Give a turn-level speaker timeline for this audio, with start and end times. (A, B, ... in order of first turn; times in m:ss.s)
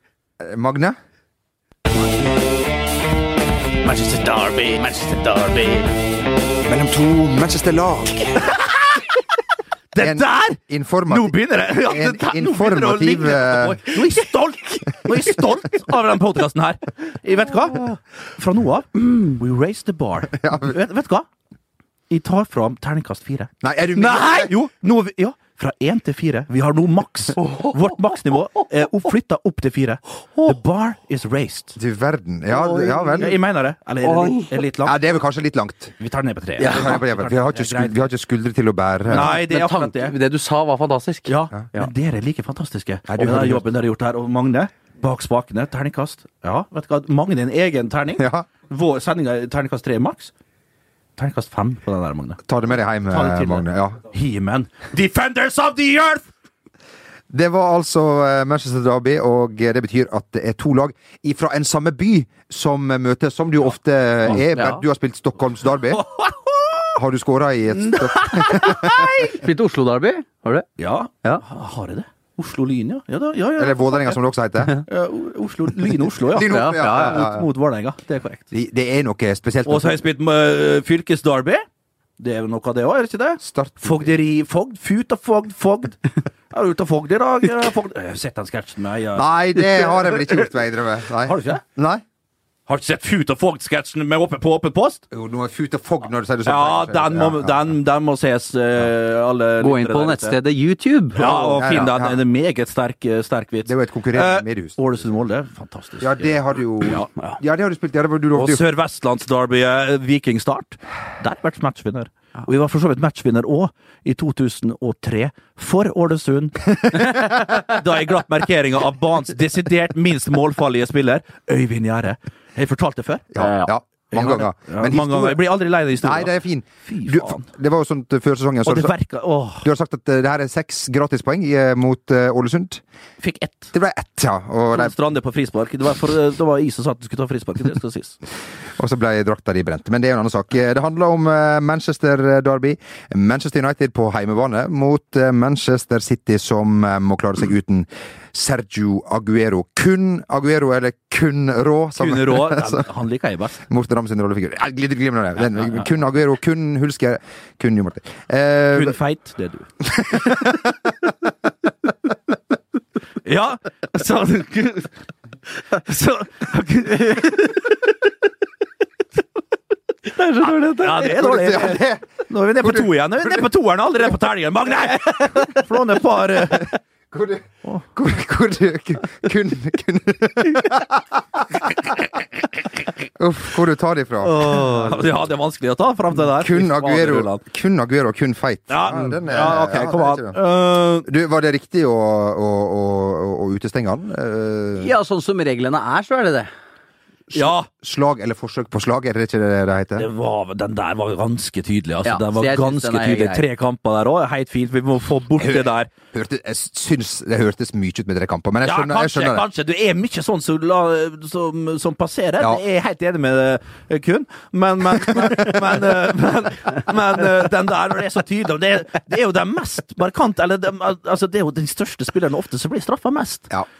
0:00.4-0:01.0 A
0:03.8-0:06.0 B
0:06.6-0:08.4 A
0:08.4-0:09.0 B
0:09.9-0:21.3 B
0:10.0-0:13.8 A
0:20.4-0:20.7 A
0:22.1-0:31.8 B
0:23.6-0:24.5 A
0:31.8-0:33.4 A
0:33.2-0:35.0 B
0:34.8-0:35.9 A
0:36.0-0:38.1 B
0:36.6-0:36.9 C
0:36.6-0:39.3 A
0:39.1-0:40.1 B
0:39.2-0:41.9 C
0:41.3-0:50.3 B
0:43.1-0:43.6 A
0:48.2-0:48.5 A
0:51.2-0:52.4 B
0:52.5-0:54.0 A
0:53.1-0:56.3 B
0:57.3-1:06.0 A
1:04.5-1:04.8 C
1:05.9-1:07.0 B
1:06.9-1:09.1 A
1:07.7-1:09.4 B
1:09.4-1:10.7 C
1:10.8-1:14.2 B
1:13.6-1:14.8 A
1:14.9-1:18.5 B
1:16.2-1:17.4 A
1:16.4-1:17.2 C
1:18.5-1:20.0 A
1:19.6-1:21.6 B
1:22.2-1:30.4 B
1:23.4-1:24.1 A
1:29.1-1:32.0 A
1:31.2-1:31.6 B
1:32.7-1:35.0 B
1:35.1-1:37.7 A
1:36.4-1:40.4 B
1:39.6-1:41.6 C
1:41.1-1:47.1 B
1:41.2-1:42.2 A
1:43.6-1:44.8 A
1:46.0-1:48.6 A
1:48.3-2:03.4 B
2:03.3-2:05.4 A
2:03.4-2:03.7 C
2:04.1-2:07.5 B
2:06.0-2:08.9 A
2:08.6-2:09.7 B
2:09.6-2:12.8 A
2:13.2-2:13.7 B
2:13.7-2:14.9 A
2:14.7-2:18.2 B
2:18.8-2:32.8 A
2:32.0-2:33.6 B
2:33.7-2:39.0 A
2:38.7-2:40.5 B
2:40.0-2:40.7 A
2:43.2-2:44.9 B
2:45.7-2:47.6 B
2:50.2-2:51.0 C
2:50.4-2:56.8 B
2:51.0-2:52.1 A
2:52.6-2:53.4 A
2:56.5-3:01.6 A
3:03.2-3:04.7 A
3:04.2-3:07.4 B
3:06.3-3:10.4 A
3:08.7-3:11.1 B
3:11.0-3:14.9 A
3:14.8-3:16.5 C
3:17.3-3:20.1 A
3:17.3-3:17.7 B
3:20.0-3:25.9 B
3:22.0-3:23.4 C
3:25.4-3:29.4 A
3:28.6-3:43.5 B
3:35.1-3:35.6 A